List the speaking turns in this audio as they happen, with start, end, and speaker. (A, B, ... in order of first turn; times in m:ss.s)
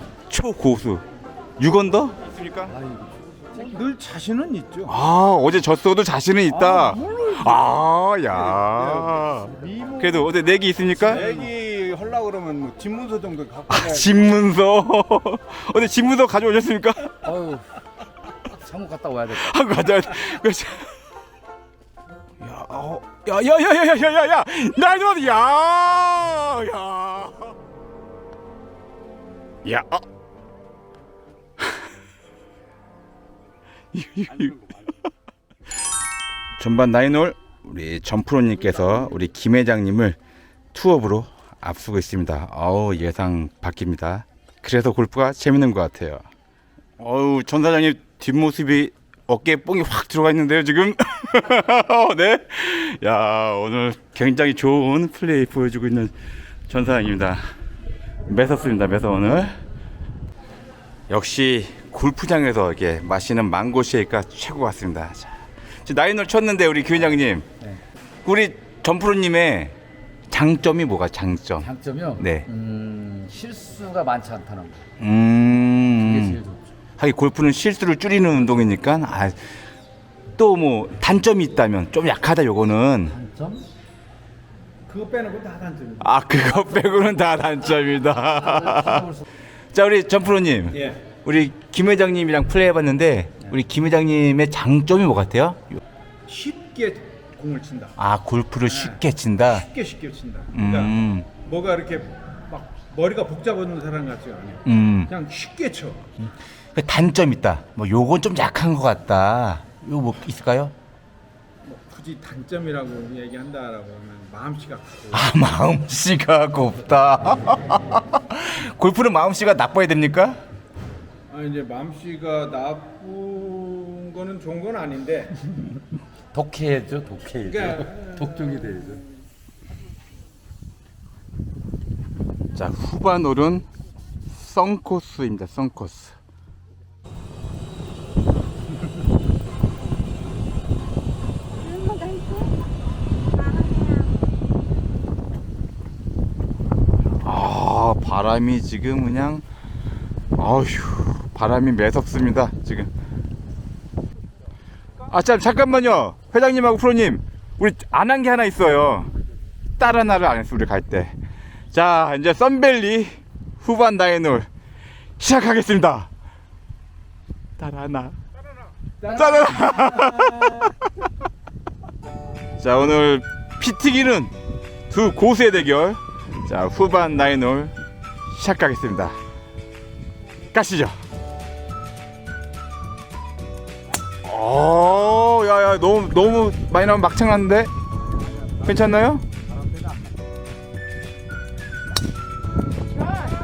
0:00.3-0:01.0 A
0:01.6-0:02.7 A
0:02.7-0:03.7 B
0:03.6-0:04.9 C
0:04.8-0:11.3 A
0:06.6-0:07.5 C
0:09.5-0:09.9 B
0:09.6-0:10.0 C
0:11.0-0:14.1 C
0:11.2-0:11.5 B
0:13.7-0:17.2 A
0:17.2-0:17.8 B
0:18.4-0:19.5 B
0:19.3-0:20.9 A
0:22.4-0:27.5 A
0:29.6-0:30.0 A
0:33.9-0:34.7 A
0:36.6-0:40.2 A
0:40.7-0:46.2 A
0:47.0-0:56.1 A
0:56.7-0:57.5 A
0:58.3-0:59.6 A
1:01.1-1:07.5 A
1:08.2-1:09.8 A
1:10.3-1:12.5 A
1:11.6-1:14.8 B
1:15.0-1:16.4 A
1:16.0-1:16.6 B
1:17.0-1:19.5 A
1:20.4-1:23.2 A
1:23.1-1:23.7 B
1:24.9-1:26.8 C
1:26.0-1:29.1 A
1:28.3-1:29.2 B
1:29.7-1:35.8 A
1:36.3-1:37.9 C
1:38.0-1:39.7 A
1:38.7-1:46.0 C
1:40.5-1:41.3 A
1:44.6-1:45.1 A
1:46.7-1:50.7 A
1:51.6-1:55.3 C
1:55.1-2:00.4 A
2:01.3-2:05.5 C
2:06.3-2:09.0 B
2:07.7-2:08.0 C
2:12.5-2:13.7 A
2:14.3-2:16.2 A
2:27.2-2:29.4 A
2:30.4-2:32.9 A
2:35.1-2:39.1 A
2:39.8-2:41.1 A
2:41.7-2:44.5 A
2:45.2-2:46.1 A
2:47.6-2:48.2 A
2:49.0-2:50.8 A
2:52.6-2:54.3 A
2:54.9-2:57.7 A
2:58.3-2:59.2 A
3:00.5-3:01.0 A
3:04.2-3:07.7 A
3:08.4-3:10.1 B
3:08.6-3:09.2 A